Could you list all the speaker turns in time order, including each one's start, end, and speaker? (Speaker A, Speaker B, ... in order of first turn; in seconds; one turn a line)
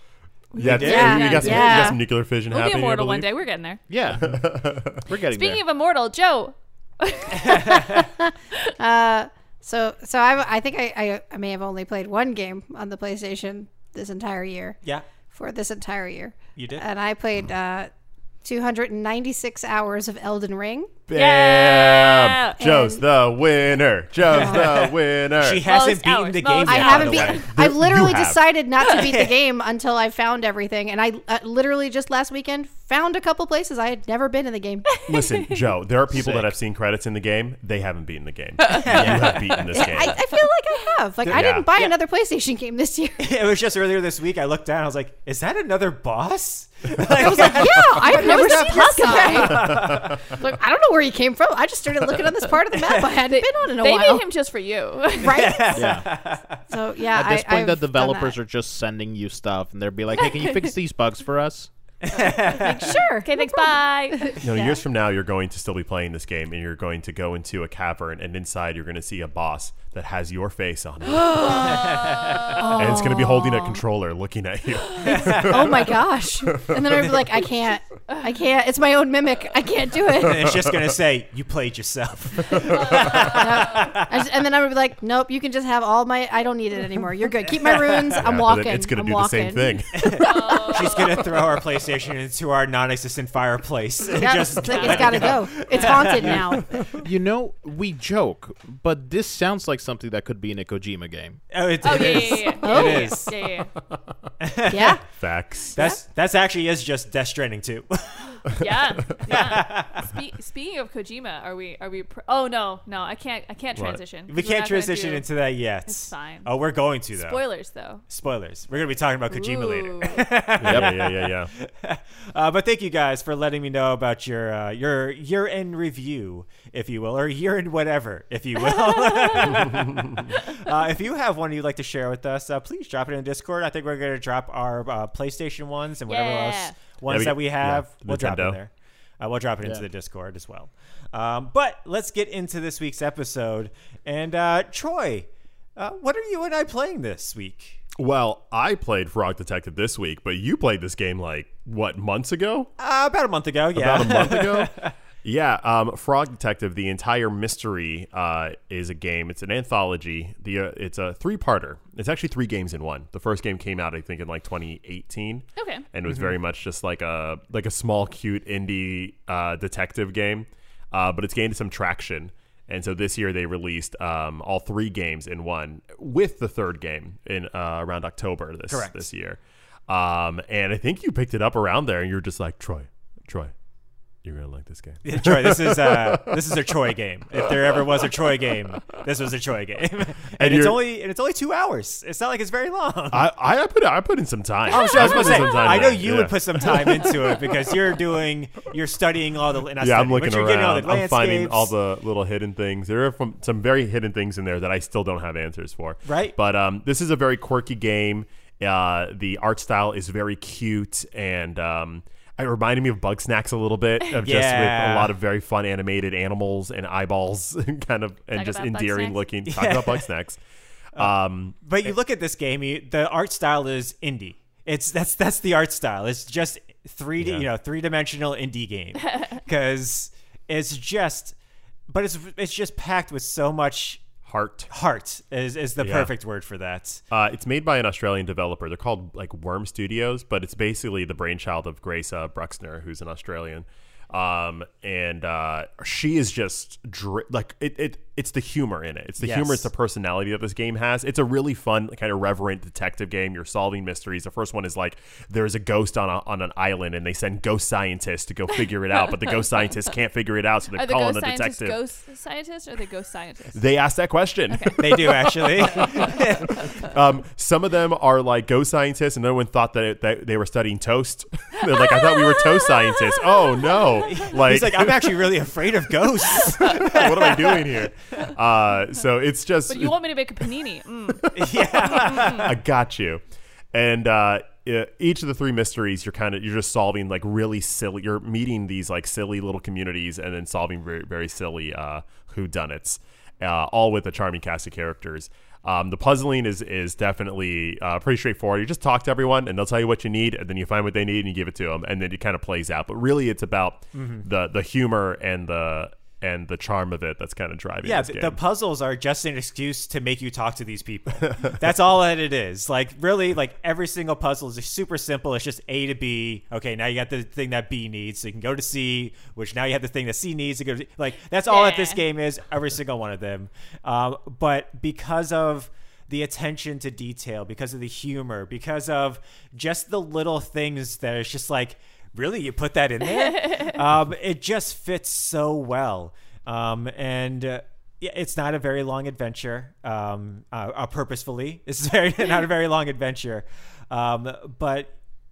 Speaker A: 0.5-3.8
Speaker B: 0.6-3.3
Speaker C: 0.6-1.6
Speaker D: 0.8-2.0
Speaker E: 3.9-4.4
Speaker B: 4.2-5.0
Speaker E: 5.0-5.6
Speaker A: 5.3-8.0
Speaker C: 7.4-8.0
Speaker D: 7.9-14.8
Speaker D: 15.3-17.9
Speaker C: 16.6-16.8
Speaker D: 18.4-20.9
Speaker B: 21.1-25.6
Speaker A: 21.1-22.6
Speaker D: 22.6-23.0
Speaker D: 24.3-24.7
Speaker C: 24.3-27.5
Speaker A: 25.6-27.5
Speaker D: 26.6-35.0
Speaker B: 27.1-28.5
Speaker C: 28.9-29.3
Speaker A: 35.0-35.5
Speaker B: 35.1-40.2
Speaker E: 36.1-36.5
Speaker C: 38.7-40.0
Speaker E: 39.0-39.3
Speaker D: 39.7-43.3
Speaker C: 41.2-41.9
Speaker B: 41.3-41.7
Speaker C: 43.2-50.4
Speaker D: 47.2-54.2
Speaker A: 48.0-49.5
Speaker B: 49.6-50.2
Speaker A: 53.7-55.6
Speaker D: 55.2-56.0
Speaker C: 55.3-56.6
Speaker E: 55.7-56.1
Speaker D: 56.7-58.4
Speaker E: 57.1-61.7
Speaker A: 60.2-60.7
Speaker C: 62.0-63.0
Speaker D: 62.4-64.8
Speaker A: 62.9-64.3
Speaker B: 64.4-71.7
Speaker D: 71.2-73.8
Speaker C: 71.6-72.6
Speaker A: 71.7-72.6
Speaker B: 72.7-77.3
Speaker C: 75.0-75.9
Speaker D: 75.1-80.6
Speaker C: 80.1-84.2
Speaker B: 80.3-80.9
Speaker B: 82.4-82.9
Speaker A: 82.6-83.9
Speaker D: 82.7-91.0
Speaker C: 87.4-88.2
Speaker B: 88.2-90.2
Speaker C: 89.9-96.6
Speaker A: 90.2-91.2
Speaker D: 94.1-96.8
Speaker A: 94.6-96.1
Speaker B: 96.8-97.0
Speaker E: 97.0-101.4
Speaker C: 101.5-103.3
Speaker A: 101.8-103.7
Speaker D: 102.0-103.3
Speaker B: 104.0-104.3
Speaker C: 104.4-105.0
Speaker D: 104.7-105.0
Speaker B: 105.1-105.8
Speaker C: 105.8-108.4
Speaker A: 108.5-115.3
Speaker C: 109.3-110.1
Speaker B: 113.8-114.0
Speaker C: 114.3-117.4
Speaker A: 115.9-116.5
Speaker A: 117.1-118.0
Speaker C: 118.1-147.8
Speaker A: 119.3-120.2
Speaker B: 120.6-121.5
Speaker E: 120.6-120.9
Speaker A: 128.6-129.6
Speaker B: 129.6-130.2
Speaker A: 130.3-130.7
Speaker A: 136.1-136.8
Speaker B: 137.1-138.6
Speaker B: 148.0-152.7
Speaker C: 152.8-154.9
Speaker B: 153.7-154.7
Speaker B: 155.2-183.5
Speaker A: 165.6-165.8
Speaker C: 178.7-179.0
Speaker B: 184.2-186.6
Speaker C: 185.0-193.3
Speaker B: 190.4-190.8
Speaker B: 193.1-197.7
Speaker C: 194.7-201.7
Speaker B: 199.8-220.4
Speaker C: 206.1-206.3
Speaker C: 214.2-215.1
Speaker A: 218.3-219.2
Speaker C: 219.4-220.1
Speaker B: 220.9-221.6
Speaker C: 220.9-231.3
Speaker B: 227.2-227.5
Speaker C: 231.9-234.1
Speaker B: 234.2-234.7
Speaker C: 234.7-237.0
Speaker B: 235.8-236.1
Speaker B: 237.1-261.8
Speaker C: 249.2-249.7
Speaker A: 260.7-263.6
Speaker B: 263.5-275.2
Speaker C: 264.8-266.6
Speaker A: 271.6-274.3
Speaker C: 274.1-277.8
Speaker B: 276.4-280.0
Speaker A: 279.7-281.2
Speaker B: 281.2-283.2
Speaker C: 281.3-282.6
Speaker A: 281.8-282.4
Speaker B: 283.7-308.4
Speaker C: 303.9-304.2
Speaker C: 307.8-344.9
Speaker A: 321.5-322.0
Speaker A: 333.2-333.8